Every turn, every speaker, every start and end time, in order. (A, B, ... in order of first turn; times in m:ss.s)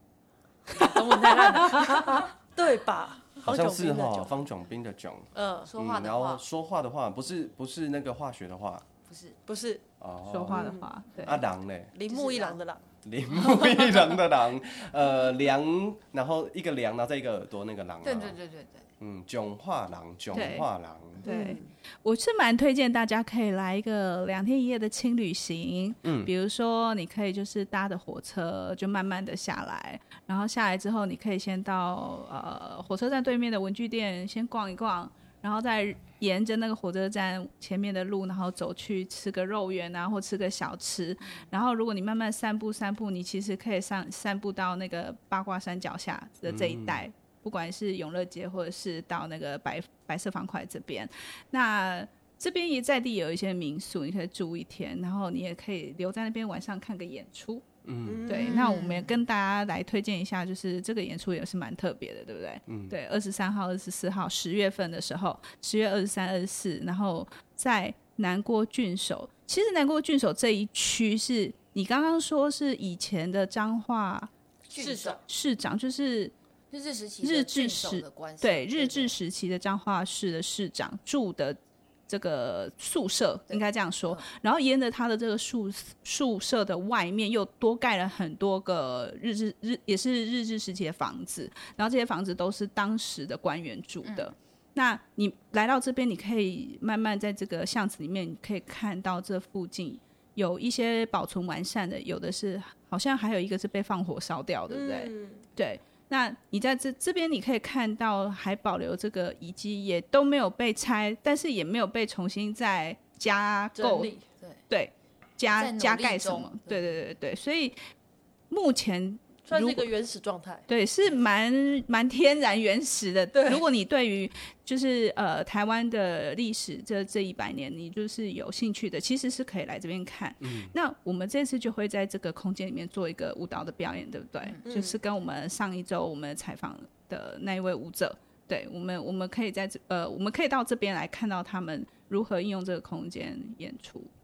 0:00.7-0:02.3 A
0:01.0-0:02.1 B
0:02.5-0:04.4 C
0:03.4-0:08.8 D
0:05.3-0:05.7 C
0:05.6-0:06.4 A
0:09.1-0:09.4 A
0:09.5-0:09.8 C
0:10.0-0:11.9 D
0:10.3-0:11.4 B
0:10.5-0:10.9 C
0:11.9-0:12.8 C
0:12.1-0:12.6 A
0:13.0-0:18.4 D
0:18.0-0:18.9 A
0:19.0-0:21.2 D
0:20.3-0:20.7 B
0:21.2-0:57.6 B
0:21.2-0:21.7 C
0:26.0-0:26.3 D
0:46.5-0:47.0 D
0:57.8-0:58.2 D
0:58.0-0:58.7 C
0:58.3-1:14.3 B
0:58.3-0:59.2 A
1:02.7-1:02.9 D
1:14.7-1:15.2 A
1:14.8-1:15.2 C
1:15.3-1:16.3 B
1:16.7-1:19.1 A
1:17.2-1:54.1 B
1:23.5-1:24.2 A
1:34.0-1:34.3 A
1:44.7-1:45.4 C
1:53.8-1:54.2 C
1:54.7-1:57.8 B
1:55.5-1:56.8 A
1:58.5-1:59.9 B
1:59.5-2:00.6 C
2:00.7-2:24.1 B
2:03.3-2:03.6 C
2:10.4-2:10.7 D
2:14.6-2:15.0 C